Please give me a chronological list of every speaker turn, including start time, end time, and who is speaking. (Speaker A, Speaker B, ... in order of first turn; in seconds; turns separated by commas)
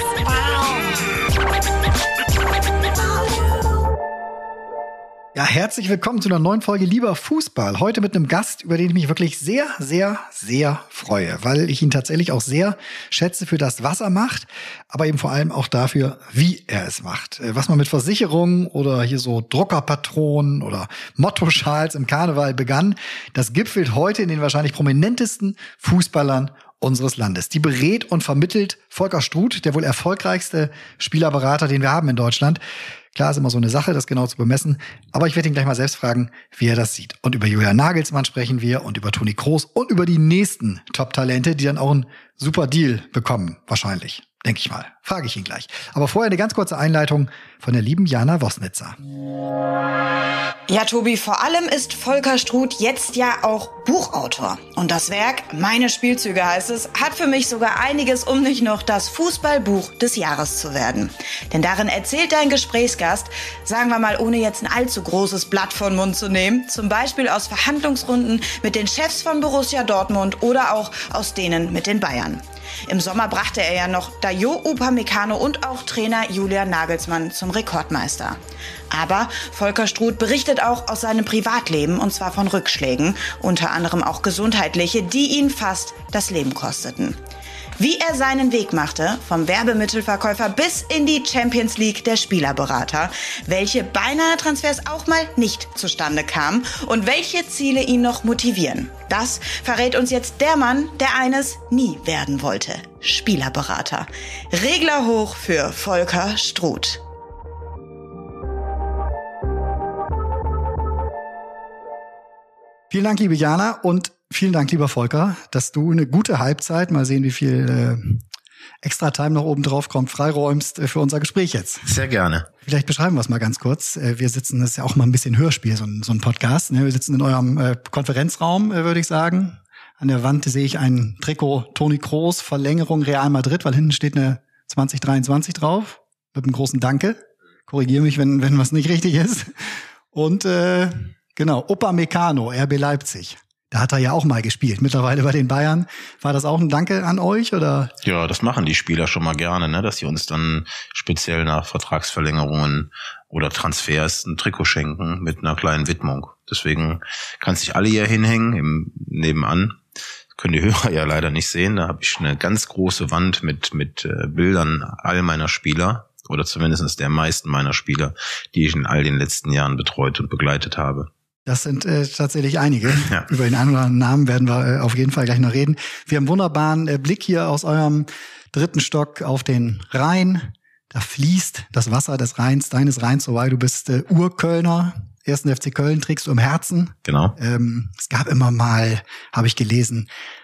Speaker A: 5.3-32.6, Speaker A: 33.1-49.0, Speaker B: 50.7-78.4, Speaker B: 78.9-87.2, Speaker B: 87.8-107.0, Speaker A: 112.9-118.2, Speaker A: 118.8-121.9, Speaker C: 121.9-122.5, Speaker A: 122.6-147.9, Speaker C: 148.0-159.8, Speaker C: 160.4-171.1, Speaker A: 171.5-190.1, Speaker C: 172.9-173.3, Speaker C: 187.1-187.3